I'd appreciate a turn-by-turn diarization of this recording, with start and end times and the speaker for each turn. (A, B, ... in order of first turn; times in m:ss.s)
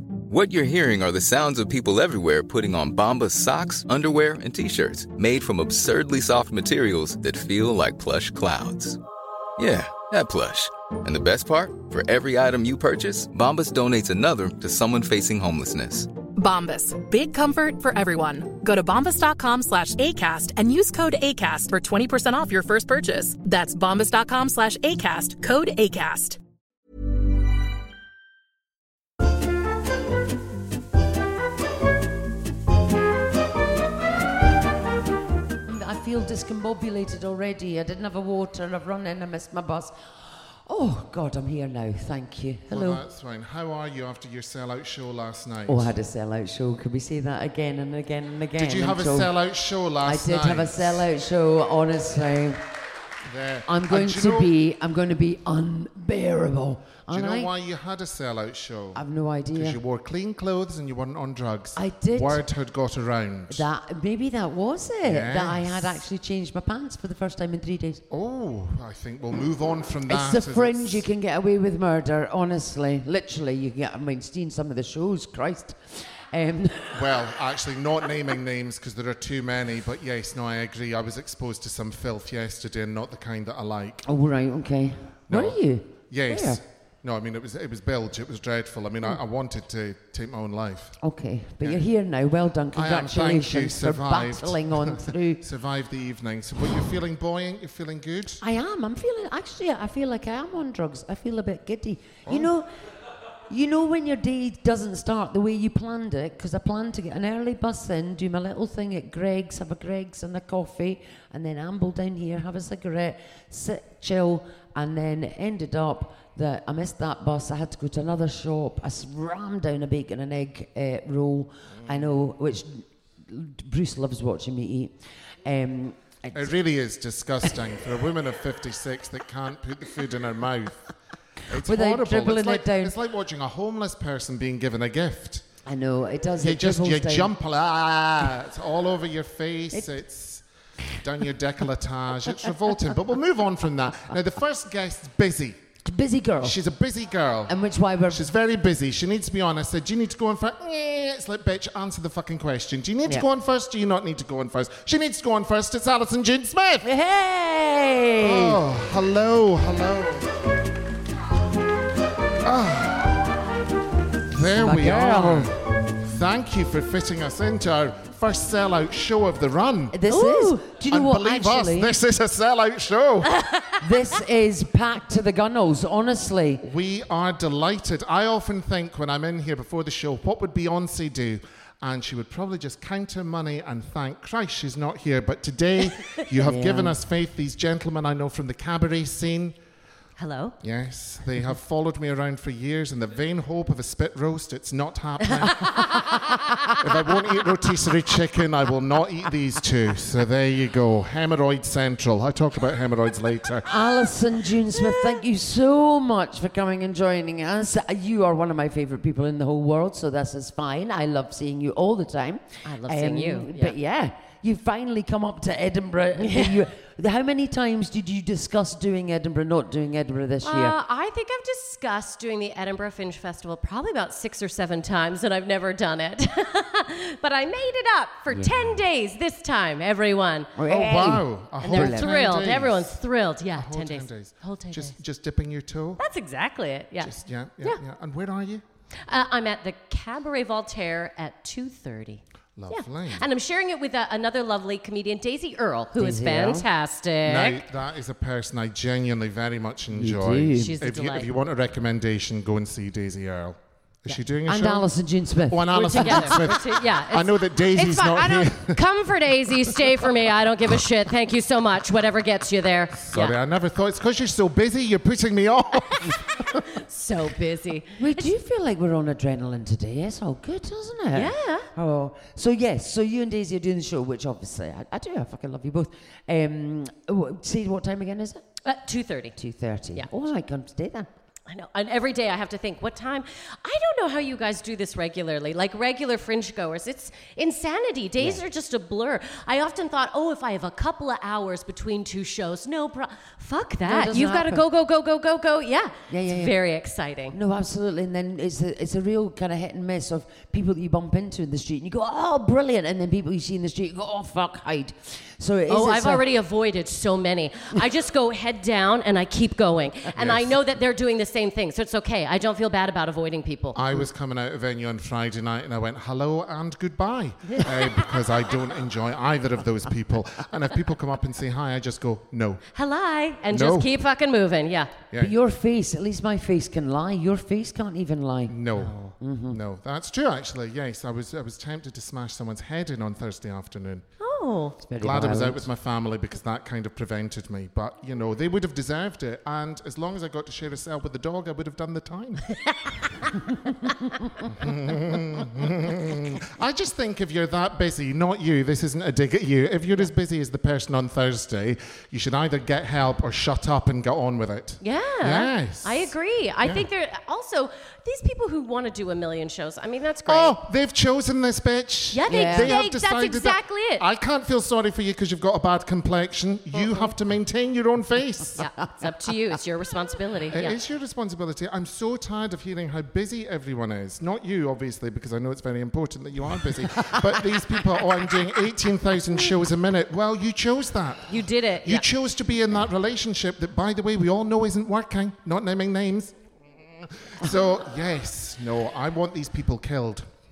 0:00.3-0:09.0 A
0:09.6-0:16.1 A
0:16.4-0:26.4 B
0:35.6-0:40.1 C
0:40.6-0:43.0 C
0:42.7-0:45.9 D
0:45.6-0:49.3 C
0:48.6-0:51.0 D
0:50.0-0:52.6 C
0:53.2-0:54.5 D
0:53.6-0:57.5 C
0:57.1-0:59.0 D
0:58.9-0:59.8 C
0:59.5-1:03.7 D
1:01.8-1:02.5 C
1:03.5-1:08.0 C
1:05.0-1:06.0 D
1:08.1-1:11.0 D
1:10.1-1:17.2 C
1:16.9-1:24.0 D
1:24.0-1:26.6 C
1:25.3-1:31.0 D
1:31.0-1:35.4 C
1:32.7-1:38.4 D
1:38.4-1:42.7 C
1:43.5-2:06.6 C
2:06.3-2:10.9 D
2:11.5-2:15.4 D
2:11.6-2:12.9 C
2:15.6-2:17.3 C
2:16.4-2:20.4 D
2:21.0-2:25.6 D
2:25.8-2:26.6 C
2:26.4-2:27.6 D
2:27.5-2:28.2 C
2:28.1-2:36.8 D
2:36.8-2:38.6 C
2:38.2-2:40.3 D
2:42.4-2:43.3 D
2:44.3-2:50.0 D
2:44.4-2:45.5 C
2:49.9-2:52.0 C
2:50.1-2:50.7 E
2:50.9-2:53.3 D
2:53.4-2:53.8 E
2:53.8-2:56.6 C
2:56.6-3:09.6 D
3:06.4-3:07.0 C
3:10.2-3:10.6 E
3:10.6-3:23.7 D
3:23.7-3:40.7 C
3:32.6-3:33.8 E
3:36.2-3:36.6 E
3:40.4-3:50.6 E
3:50.6-3:52.1 C
3:50.7-3:53.0 D
3:51.6-3:55.0 E
3:53.6-3:56.0 D
3:56.0-3:57.8 E
3:57.0-3:58.6 D
3:59.1-4:07.6 E
4:02.6-4:03.3 D
4:06.0-4:06.7 C
4:07.2-4:14.9 D
4:09.9-4:10.8 C
4:10.5-4:11.3 E
4:14.1-4:16.6 C
4:15.5-4:18.8 D
4:15.7-4:23.4 E
4:23.0-4:26.2 D
4:26.6-4:28.3 E
4:28.0-4:38.4 C
4:31.1-4:31.7 E
4:38.6-4:39.4 E
4:39.4-4:41.1 C
4:41.5-4:57.4 E
4:53.8-4:54.6 C
4:56.1-4:56.6 C
4:57.3-5:06.2 C
5:05.7-5:13.8 E
5:10.2-5:10.6 D
5:13.7-5:22.6 D
5:17.4-5:17.7 E
5:22.7-5:24.9 E
5:23.5-5:23.9 D
5:25.1-5:25.4 D
5:25.2-5:29.6 C
5:28.5-5:34.0 D
5:34.2-5:34.8 E
5:34.8-5:35.7 C
5:35.0-5:42.5 D
5:44.4-5:56.8 D
5:54.8-6:00.6 E
6:00.2-6:08.6 D
6:02.1-6:04.0 E
6:02.3-6:02.8 C
6:06.7-6:07.1 E
6:08.6-6:10.8 E
6:10.5-6:21.3 D
6:21.3-6:22.0 E
6:21.8-6:26.3 D
6:26.9-6:30.3 D